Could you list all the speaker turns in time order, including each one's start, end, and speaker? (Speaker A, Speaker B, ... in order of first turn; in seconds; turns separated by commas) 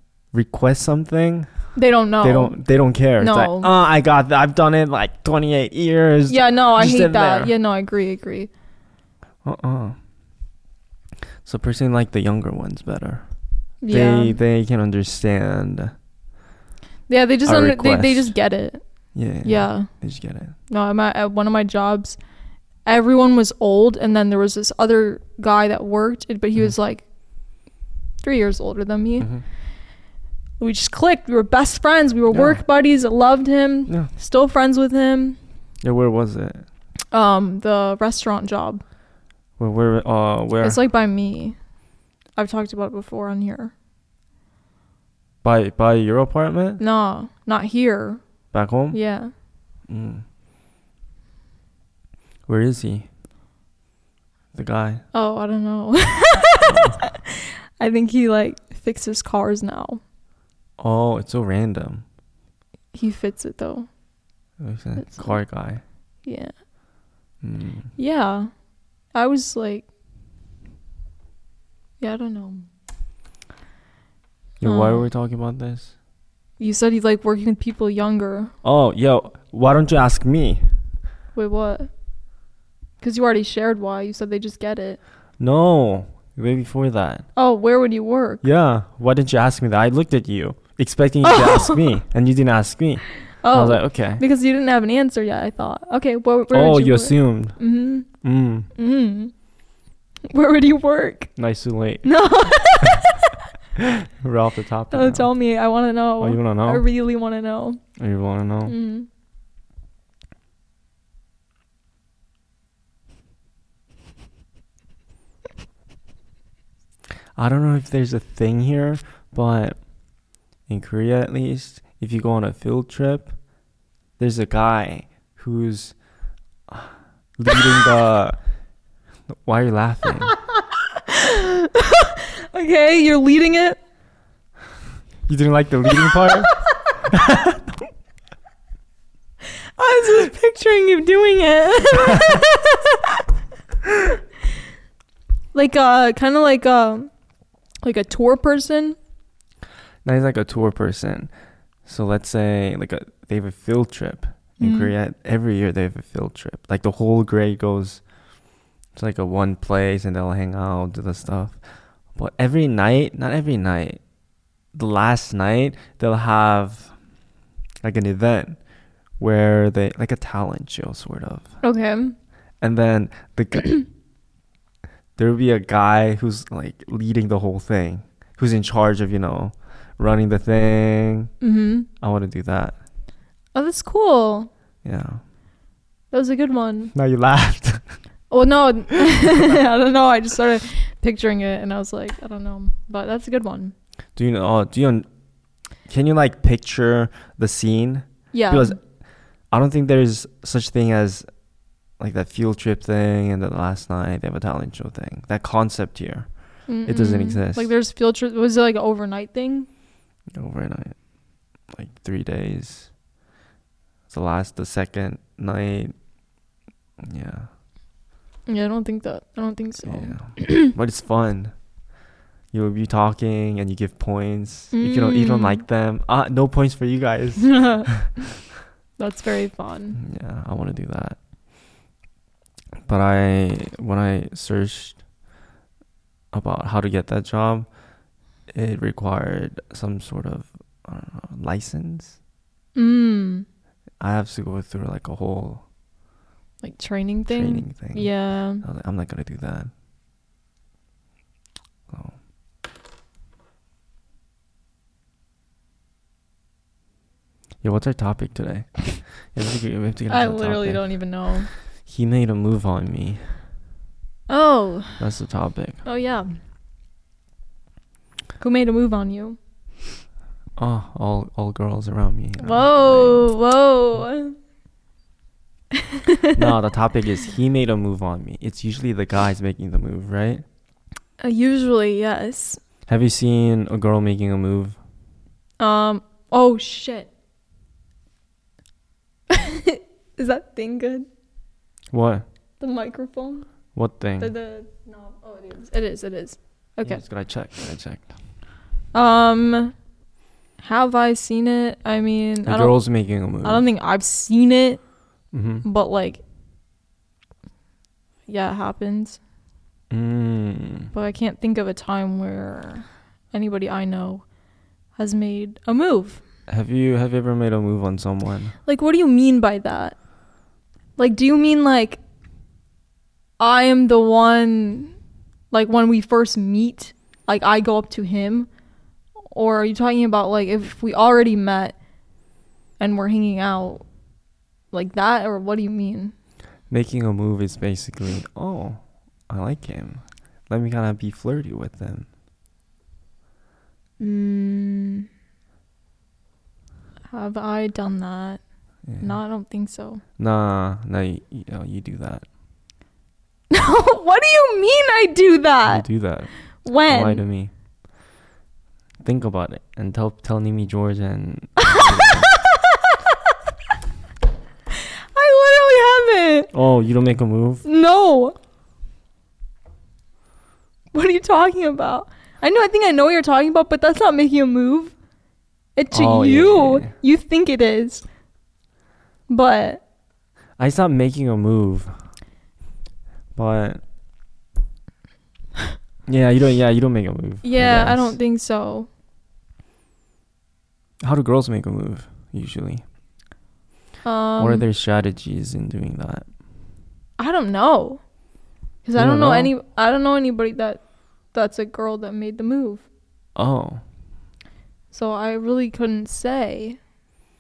Speaker A: 0.3-1.5, Speaker B: 1.8-2.6, Speaker A: 2.2-7.5, Speaker B: 3.2-3.7, Speaker B: 6.3-8.5, Speaker A: 9.4-10.0, Speaker A: 11.4-13.3, Speaker B: 13.8-14.4, Speaker A: 13.9-15.9, Speaker B: 17.1-18.8, Speaker A: 17.5-18.3, Speaker A: 19.1-20.6, Speaker B: 19.4-19.9, Speaker B: 20.7-22.2, Speaker B: 22.9-27.0, Speaker B: 28.2-29.3, Speaker B: 30.6-35.4, Speaker A: 32.3-32.6, Speaker A: 35.8-36.7, Speaker B: 37.1-38.8, Speaker A: 39.6-40.8, Speaker B: 40.6-41.6, Speaker B: 42.4-43.7, Speaker A: 45.4-46.8, Speaker B: 46.8-48.2, Speaker A: 48.5-49.0, Speaker B: 48.9-49.3, Speaker A: 49.9-50.2, Speaker A: 52.5-53.1, Speaker A: 54.5-55.0, Speaker B: 55.1-60.0, Speaker A: 56.6-57.0, Speaker A: 60.8-62.0, Speaker B: 62.9-63.9, Speaker A: 64.6-65.8, Speaker B: 65.0-65.4, Speaker B: 66.2-66.5, Speaker A: 67.4-67.9, Speaker B: 68.0-68.5, Speaker B: 69.1-69.8, Speaker B: 72.0-72.7, Speaker A: 74.6-75.9, Speaker B: 74.6-75.1, Speaker B: 76.6-78.5, Speaker A: 78.6-80.6, Speaker B: 81.3-81.9, Speaker B: 83.0-85.0, Speaker A: 85.4-87.3, Speaker B: 87.4-88.4, Speaker A: 88.4-94.2, Speaker B: 91.2-91.8, Speaker B: 93.4-98.1, Speaker A: 96.5-97.6, Speaker A: 98.2-98.7, Speaker B: 98.8-99.3, Speaker B: 100.3-101.3, Speaker A: 101.4-102.1, Speaker B: 102.0-103.4, Speaker A: 103.8-105.3, Speaker B: 104.9-107.8, Speaker A: 106.2-106.8, Speaker A: 108.0-108.8, Speaker B: 108.7-109.1, Speaker A: 117.4-119.8, Speaker A: 120.7-123.3, Speaker A: 124.2-126.0, Speaker A: 126.7-128.4, Speaker A: 129.3-130.3, Speaker B: 130.3-133.8, Speaker A: 135.3-136.5, Speaker B: 135.9-136.4, Speaker A: 137.1-137.6, Speaker B: 139.8-143.2, Speaker B: 143.9-144.2, Speaker B: 145.5-147.1, Speaker B: 147.8-149.0, Speaker A: 150.1-151.3, Speaker A: 151.9-158.0, Speaker B: 154.6-154.9, Speaker A: 158.9-161.6, Speaker A: 162.2-164.0, Speaker A: 164.7-166.9, Speaker A: 167.8-168.6, Speaker A: 169.2-171.5, Speaker B: 171.6-172.2, Speaker A: 172.6-173.8, Speaker A: 175.2-181.3, Speaker B: 181.4-181.9, Speaker A: 182.0-182.8, Speaker B: 183.5-184.5, Speaker A: 184.8-185.2, Speaker B: 186.1-186.9, Speaker A: 186.9-187.8, Speaker B: 188.3-193.7, Speaker A: 194.2-195.1, Speaker A: 195.9-198.8, Speaker B: 198.3-198.8, Speaker A: 199.5-201.3, Speaker A: 202.0-206.3, Speaker B: 206.7-209.7, Speaker A: 206.8-207.7, Speaker A: 210.3-211.0, Speaker A: 211.7-212.9, Speaker A: 214.1-215.9, Speaker A: 217.0-217.5, Speaker B: 218.5-220.7, Speaker A: 219.8-221.5, Speaker A: 222.5-228.1, Speaker B: 224.7-225.6, Speaker B: 227.4-227.9, Speaker B: 229.0-230.0, Speaker A: 230.0-231.2, Speaker A: 232.9-235.0, Speaker A: 236.3-237.7, Speaker A: 238.5-242.2, Speaker B: 242.8-243.5, Speaker A: 244.0-245.6, Speaker B: 246.6-248.6, Speaker A: 247.3-248.1, Speaker A: 248.6-249.7, Speaker A: 251.9-252.2, Speaker A: 257.6-260.9, Speaker B: 260.1-261.5, Speaker A: 261.9-263.2, Speaker B: 264.3-265.0, Speaker A: 265.0-265.8, Speaker B: 265.8-266.4, Speaker B: 268.4-269.4, Speaker A: 270.6-273.3, Speaker B: 272.4-274.4, Speaker B: 275.7-276.6, Speaker A: 276.4-280.4, Speaker B: 281.2-282.6, Speaker A: 282.9-284.8, Speaker B: 285.6-287.1, Speaker B: 289.3-291.1, Speaker A: 291.9-292.2, Speaker B: 292.6-293.5, Speaker A: 293.8-294.3, Speaker B: 294.2-297.0, Speaker A: 296.8-298.1, Speaker B: 298.9-299.7, Speaker B: 300.6-302.8, Speaker A: 302.4-303.6, Speaker B: 303.4-304.8, Speaker A: 305.3-305.6, Speaker B: 305.6-306.2, Speaker B: 308.3-309.2, Speaker A: 309.9-310.9, Speaker B: 310.9-314.2, Speaker B: 315.0-316.2, Speaker A: 316.5-318.6, Speaker B: 318.7-319.9, Speaker B: 321.0-322.0, Speaker B: 323.4-324.9, Speaker B: 325.5-328.5, Speaker B: 329.3-331.8, Speaker B: 332.8-333.8, Speaker B: 334.7-336.1, Speaker A: 336.7-342.1, Speaker B: 344.0-345.1, Speaker B: 347.1-348.4, Speaker A: 348.9-349.1, Speaker B: 349.0-350.0, Speaker A: 350.2-352.3, Speaker B: 353.5-355.9, Speaker A: 355.7-356.3, Speaker B: 356.6-357.2, Speaker A: 356.9-357.5, Speaker A: 359.0-362.3, Speaker B: 361.6-363.4, Speaker B: 364.7-366.5, Speaker A: 366.5-367.6, Speaker B: 367.6-368.4, Speaker B: 370.9-374.9, Speaker B: 375.8-378.1, Speaker A: 375.9-376.9, Speaker B: 379.3-379.8, Speaker A: 380.6-381.9, Speaker A: 383.4-383.8, Speaker A: 386.1-388.2, Speaker B: 387.4-388.9, Speaker A: 391.0-392.8, Speaker B: 394.0-394.6, Speaker A: 394.4-396.3, Speaker B: 397.2-398.0, Speaker B: 398.9-400.8, Speaker A: 399.0-399.5, Speaker B: 401.3-402.9, Speaker A: 403.4-403.8, Speaker B: 404.9-406.8